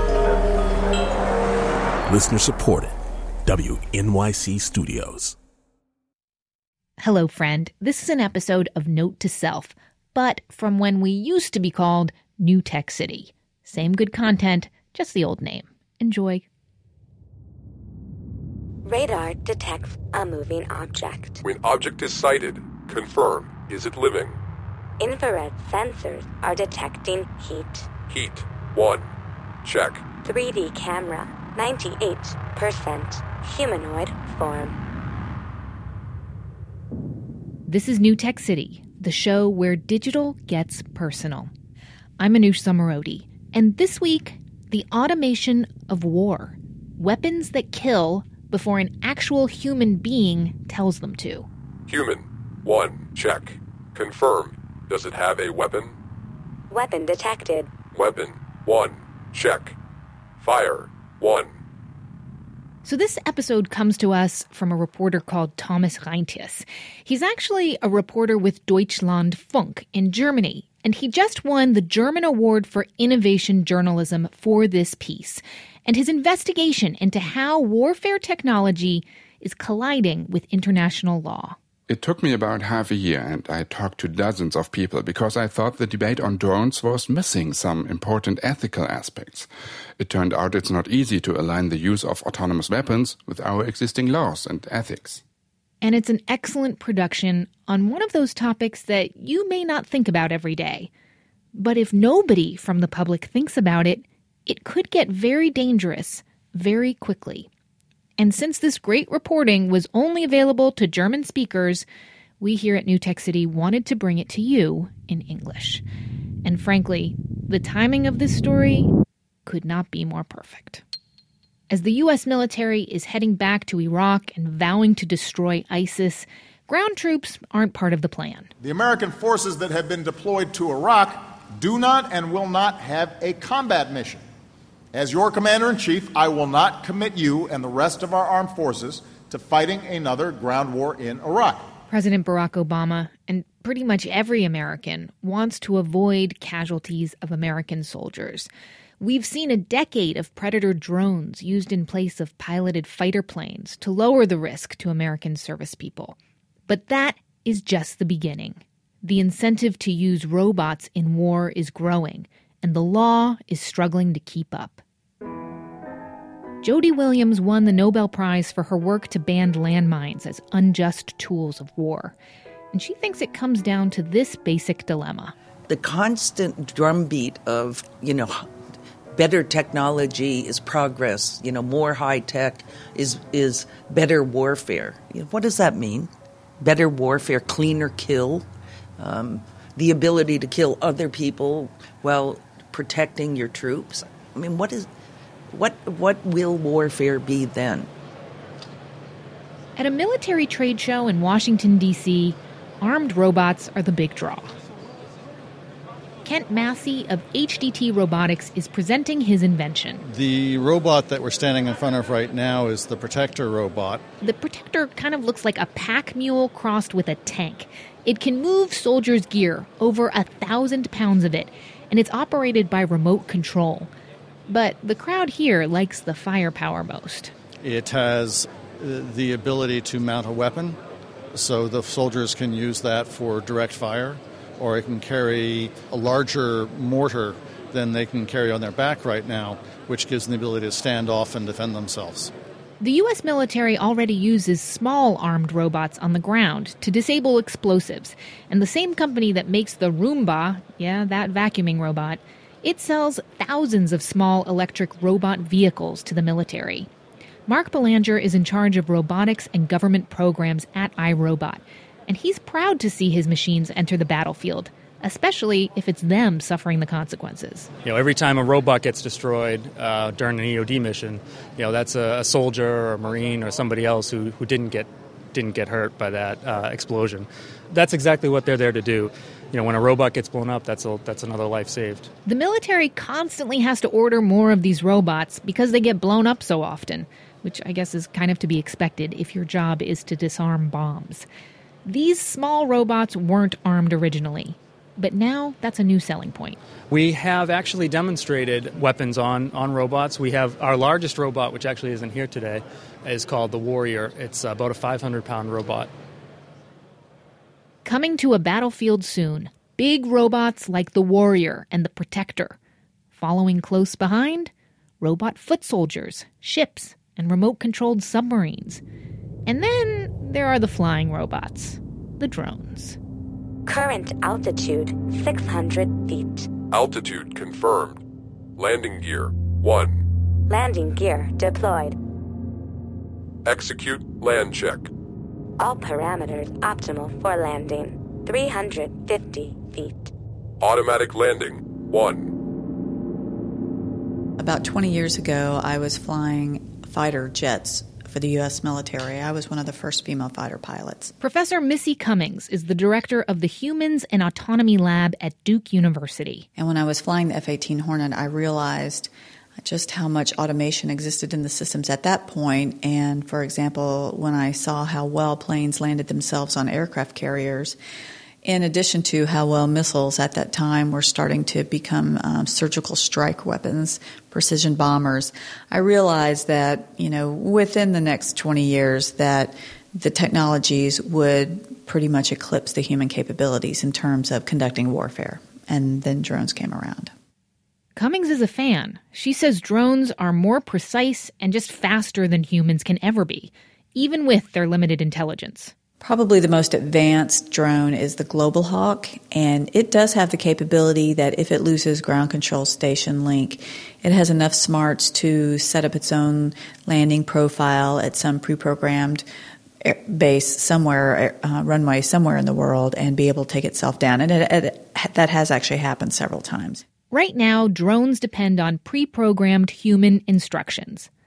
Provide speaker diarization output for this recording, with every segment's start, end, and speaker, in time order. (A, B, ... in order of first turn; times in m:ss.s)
0:02.1-0:02.9 A
0:03.4-0:05.3 A
0:07.0-0:16.4 B
0:18.8-0:21.4 C
0:21.4-0:24.4 D
0:25.0-0:27.9 C
0:28.1-0:29.1 D
0:29.6-0:30.1 D
0:30.2-0:34.8 C
0:37.7-0:41.5 B
0:42.2-0:51.5 B
0:51.9-0:55.9 D
0:56.7-0:57.8 C
0:57.9-0:59.7 D
1:00.4-1:01.6 D
1:02.8-1:21.6 B
1:21.9-1:35.2 E
1:35.8-1:40.9 B
1:41.5-1:47.5 B
1:48.2-1:51.8 B
1:52.4-1:55.8 B
1:56.4-1:58.9 B
1:59.4-2:00.8 B
2:01.7-2:08.5 B
2:08.6-2:14.2 F
2:14.9-2:21.7 F
2:21.9-2:36.2 B
2:36.7-2:44.8 B
2:46.6-2:52.1 B
2:52.7-2:55.3 B
2:55.7-2:58.4 G
2:59.1-3:08.5 G
3:09.0-3:14.9 G
3:15.5-3:17.9 G
3:19.8-3:24.5 B
3:26.2-3:30.0 B
3:30.0-3:34.0 H
3:34.2-3:43.9 B
3:44.5-3:47.3 B
3:47.6-3:50.8 H
3:51.3-4:02.3 H
4:02.8-4:16.9 B
4:17.5-4:27.7 B
4:27.8-4:42.1 I
4:42.2-4:51.2 B
4:51.8-4:56.6 B
4:56.9-5:05.9 I
5:07.8-5:12.6 B
5:13.1-5:18.8 B
5:19.5-5:23.0 B
5:23.6-5:26.5 C
5:26.7-5:28.0 D
5:28.6-5:30.0 D
5:30.5-5:31.9 C
5:33.4-5:34.9 D
5:35.6-5:40.1 C
5:40.6-5:42.3 D
5:44.4-5:51.1 J
5:51.2-5:56.4 B
5:56.6-6:07.8 J
6:08.4-6:27.1 J
6:28.0-6:35.7 B
6:36.0-6:49.2 J
6:49.8-6:56.8 J
6:57.1-7:01.1 B